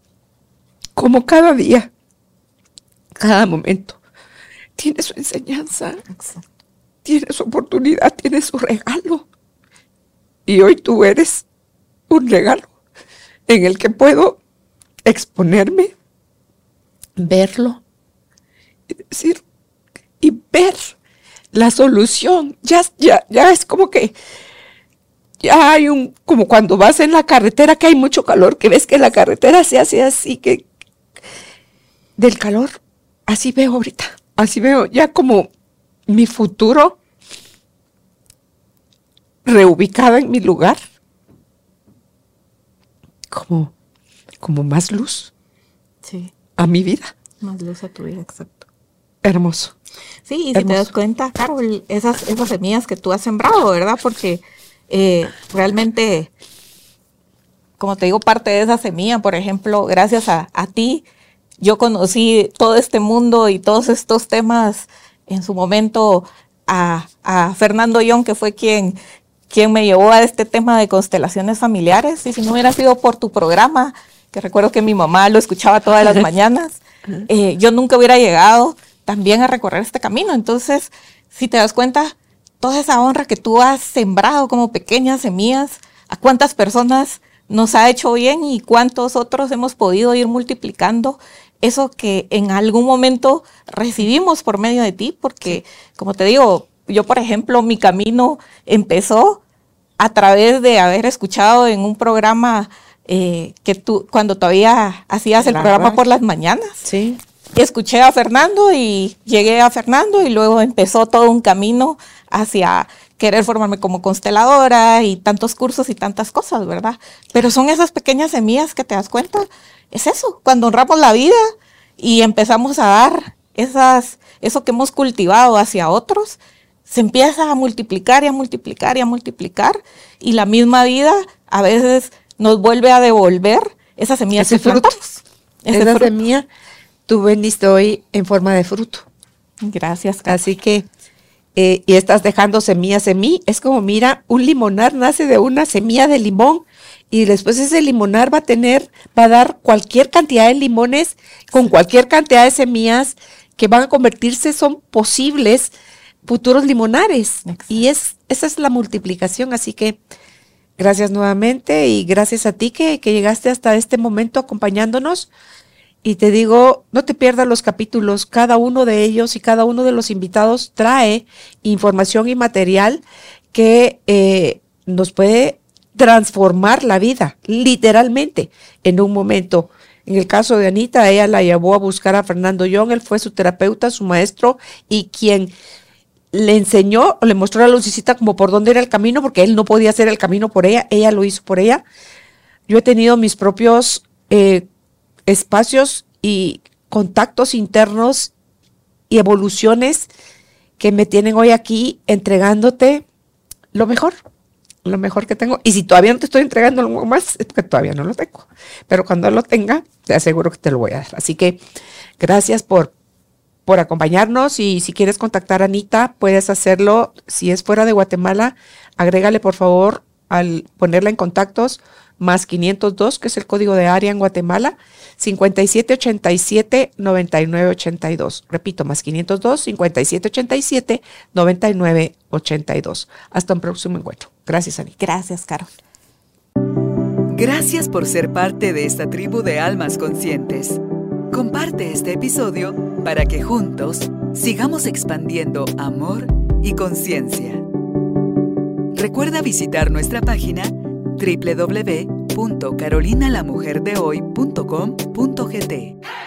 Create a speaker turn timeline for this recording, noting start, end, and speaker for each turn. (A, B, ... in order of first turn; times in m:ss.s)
0:01.0-0:01.9 A
0:03.2-0:04.0 A
0:04.8-0:06.0 A
0:06.1-0:06.5 B
0:07.0-0:09.3 A
0:10.4-0:11.4 A
0:12.1-0:12.7 A
0:13.5-0:14.4 A
0:15.0-0:15.9 A
0:17.2-0:17.8 A
0:19.1-0:19.4 A
0:20.2-0:20.9 A
0:21.5-0:24.2 A
0:25.4-0:30.6 A
0:32.2-0:35.5 A
0:36.1-0:37.0 A
0:39.4-0:40.8 A
0:43.3-0:43.7 A
0:44.4-0:45.3 A
0:46.0-0:46.3 B
0:46.6-0:47.1 A
0:47.4-0:48.7 B
0:49.2-0:49.7 A
0:50.2-0:56.3 B
0:50.5-0:50.9 A
0:57.8-1:01.0 B
1:01.6-1:09.0 B
1:09.5-1:39.4 B
1:40.0-1:46.8 B
1:45.4-1:46.0 A
1:46.8-1:47.2 A
1:47.5-2:01.4 B
2:02.0-2:16.1 B
2:14.4-2:14.9 A
2:15.7-2:16.5 A
2:17.1-2:19.0 A
2:19.6-2:20.4 B
2:20.3-2:20.9 A
2:21.6-2:35.7 A
2:36.2-2:40.0 A
2:37.4-2:37.8 B
2:40.8-2:45.3 A
2:46.0-3:05.5 A
3:06.3-3:11.8 A
3:12.7-3:14.7 A
3:15.2-3:18.3 A
3:19.1-3:20.1 A
3:20.8-3:23.0 A
3:23.7-3:24.2 A
3:24.8-3:31.6 A
3:32.2-3:32.9 A
3:33.6-3:54.9 A
3:55.0-3:55.7 B
3:57.3-4:00.8 C
4:01.3-4:07.6 C
4:08.9-4:16.0 C